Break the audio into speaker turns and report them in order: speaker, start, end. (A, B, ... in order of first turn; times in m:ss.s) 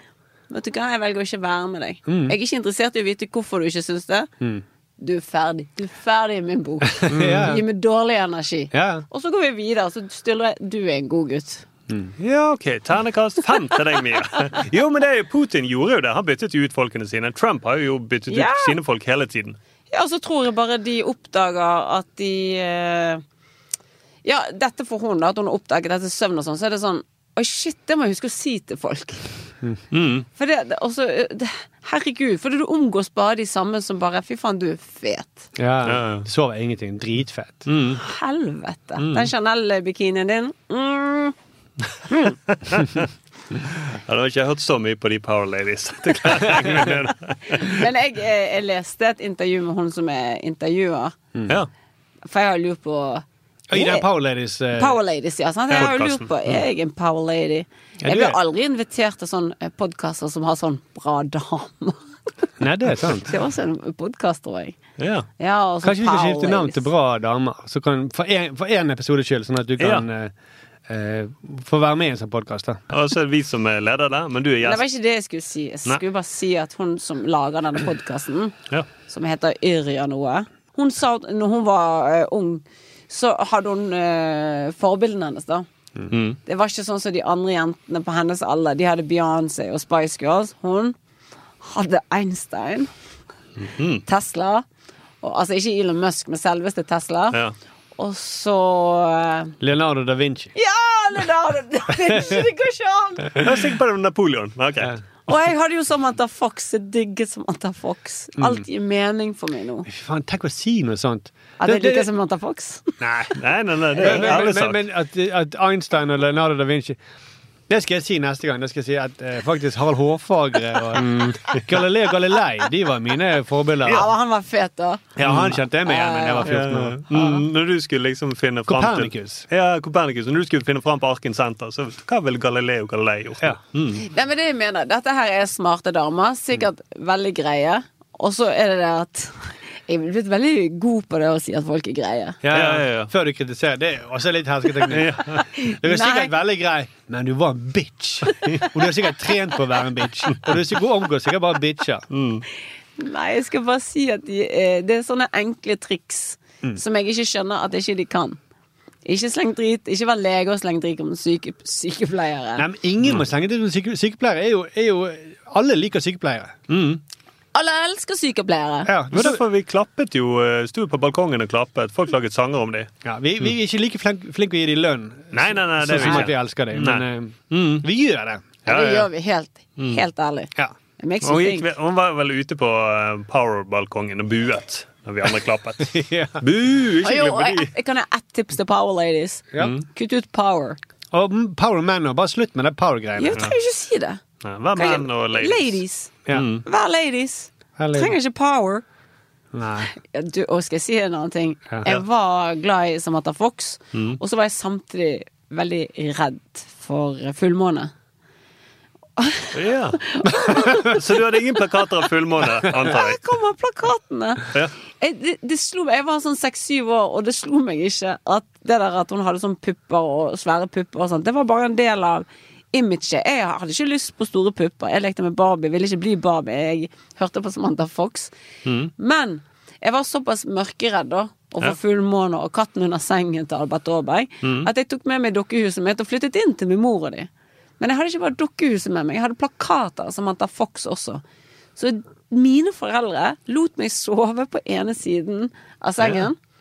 0:00.5-0:04.3 A
0:02.1-0:02.4 B
0:05.0-0:11.6 A
0:07.0-0:07.6 B
0:08.7-0:09.0 B
0:11.9-0:12.1 B
0:12.2-0:19.6 C
0:18.3-0:18.8 A
0:19.9-0:23.2 A
0:24.2-0:29.2 A
0:29.9-0:30.3 C
0:30.4-0:35.5 A
0:35.6-0:37.7 B
0:35.8-0:36.2 C
0:37.7-0:38.0 C
0:38.0-0:41.3 A
0:39.0-0:39.3 C
0:42.2-0:43.1 C
0:43.6-0:47.8 C
0:46.5-0:46.8 B
0:47.6-0:51.1 A
0:51.3-0:51.6 B
0:52.2-0:54.1 A
0:53.7-0:55.0 B
0:54.7-1:02.0 A
0:55.7-0:56.6 C
0:58.0-0:58.4 B
1:02.6-1:03.3 B
1:03.1-1:04.8 A
1:05.0-1:05.3 C
1:05.4-1:06.9 A
1:05.8-1:10.3 B
1:09.8-1:10.0 C
1:10.9-1:12.8 B
1:12.9-1:14.8 C
1:14.6-1:18.5 A
1:19.1-1:25.7 A
1:26.1-1:26.4 C
1:26.4-1:30.9 A
1:31.6-1:32.9 A
1:33.6-1:34.0 C
1:34.0-1:34.6 A
1:35.2-1:37.4 A
1:38.0-1:39.5 A
1:39.6-1:40.5 B
1:40.5-1:43.4 A
1:42.1-1:42.4 B
1:43.4-1:45.0 C
1:45.3-1:49.9 A
1:48.4-1:48.6 B
1:49.8-1:52.1 B
1:51.6-1:53.0 A
1:53.0-1:53.4 B
1:53.3-1:54.8 C
1:53.9-1:57.0 B
1:54.0-1:54.3 A
1:57.7-2:04.1 B
2:01.0-2:01.6 C
2:03.8-2:05.0 A
2:05.2-2:07.0 B
2:05.2-2:05.6 C
2:05.8-2:07.4 A
2:06.4-2:14.0 C
2:08.7-2:09.4 B
2:14.0-2:22.4 A
2:22.4-2:32.1 B
2:22.5-2:23.1 C
2:24.9-2:25.4 C
2:25.5-2:26.3 A
2:32.1-2:32.4 C
2:33.0-2:38.4 A
2:39.0-2:42.6 A
2:42.6-2:46.6 B
2:46.7-2:47.0 C
2:47.5-2:48.9 A
2:48.8-2:49.4 B
2:49.1-2:52.9 C
2:53.0-2:58.4 B
2:55.3-2:57.8 C
2:58.6-3:01.6 A
2:58.6-2:59.1 C
3:01.2-3:07.7 C
3:05.8-3:06.4 B
3:07.0-3:10.8 A
3:09.6-3:09.8 C
3:11.1-3:13.4 B
3:13.2-3:14.2 A
3:14.4-3:16.6 C
3:14.8-3:16.1 A
3:16.6-3:18.8 A
3:17.8-3:18.2 B
3:19.5-3:19.9 B
3:20.0-3:27.9 A
3:23.9-3:24.2 C
3:29.2-3:31.0 A
3:29.5-3:33.2 C
3:32.7-3:48.3 A
3:48.6-3:48.9 C
3:49.0-3:57.3 A
3:54.4-3:54.7 C
3:57.8-4:01.2 A
4:01.8-4:06.4 A